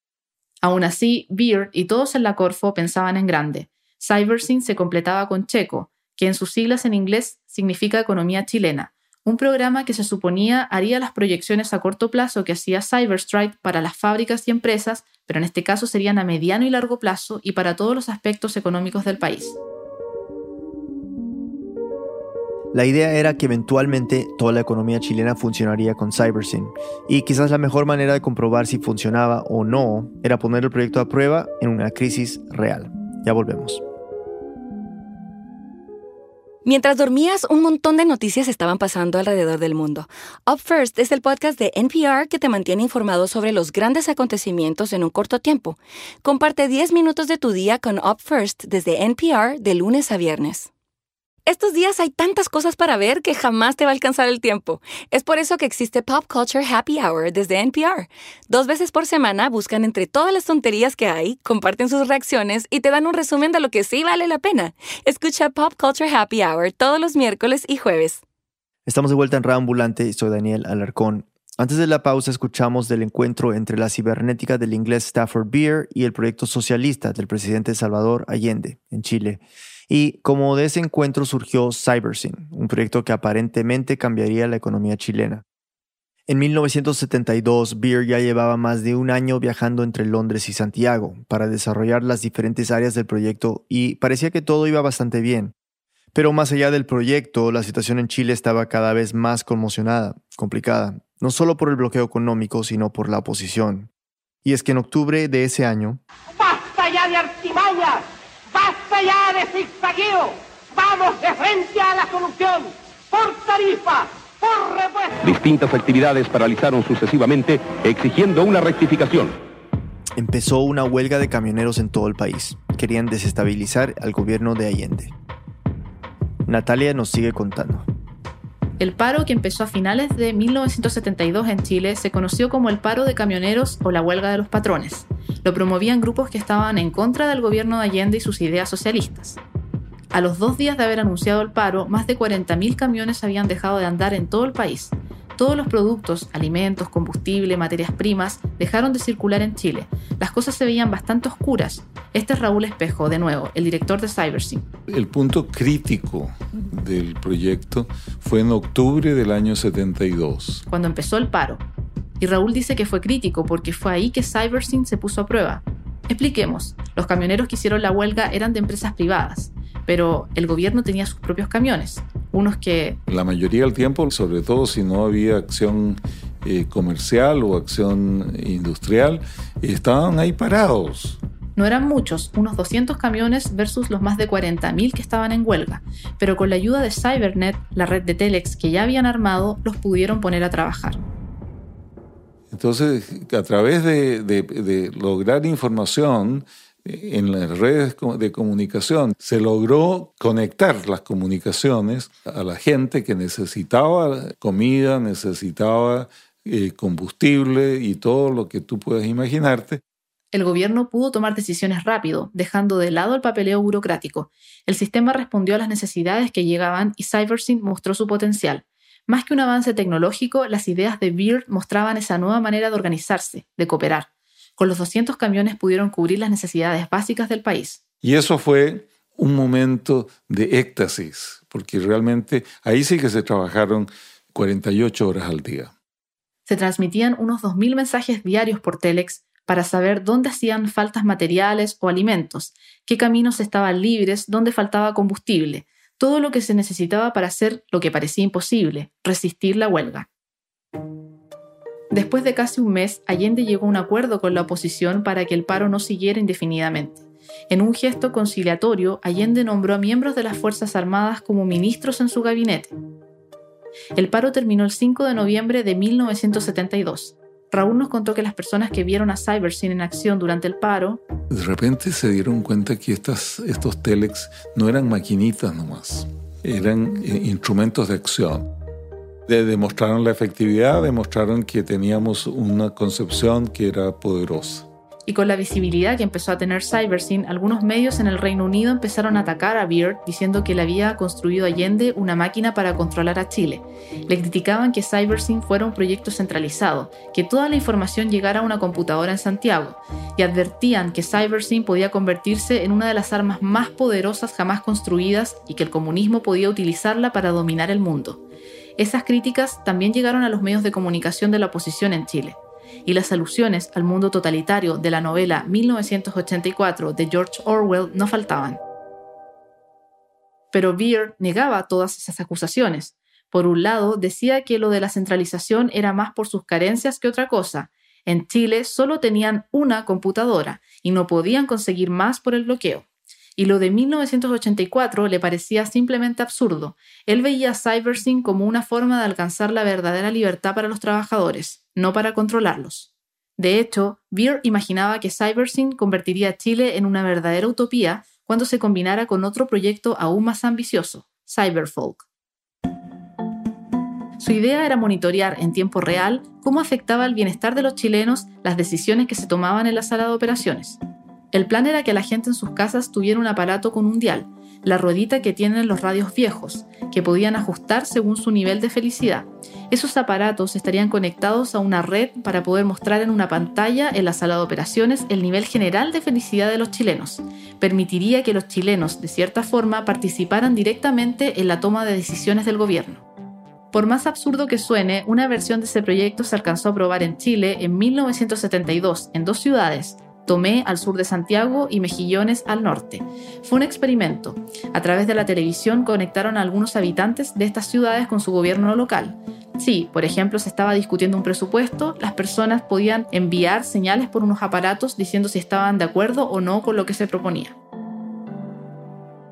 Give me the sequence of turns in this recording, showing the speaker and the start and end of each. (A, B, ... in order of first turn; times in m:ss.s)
0:00.6-0:19.6 A
0:22.7-0:33.8 B
0:36.6-0:50.7 C
0:51.5-1:08.2 C
1:08.9-1:25.4 B
1:26.3-1:35.5 B
1:36.1-1:43.9 B
1:44.4-1:46.0 B
1:46.4-1:55.2 D
1:55.2-1:59.3 E
2:00.2-2:05.1 B
2:06.5-2:07.9 B
2:08.8-2:19.4 A
2:20.1-2:34.6 A
2:34.9-2:40.6 F
2:40.7-2:41.6 A
2:42.2-2:53.0 A
2:53.1-3:01.2 F
3:01.6-3:11.0 A
3:12.5-3:29.8 F
3:30.3-3:47.8 A
3:48.0-3:55.7 F
3:56.5-4:10.1 A
4:11.9-4:22.7 A
4:24.0-4:31.0 A
4:31.3-4:38.5 F
4:39.3-4:44.7 F
4:45.1-5:08.2 A
5:08.8-5:18.6 A
5:20.5-5:32.9 A
5:33.4-5:52.0 A
5:54.2-6:00.8 A
6:01.3-6:23.0 A
6:23.7-6:47.6 A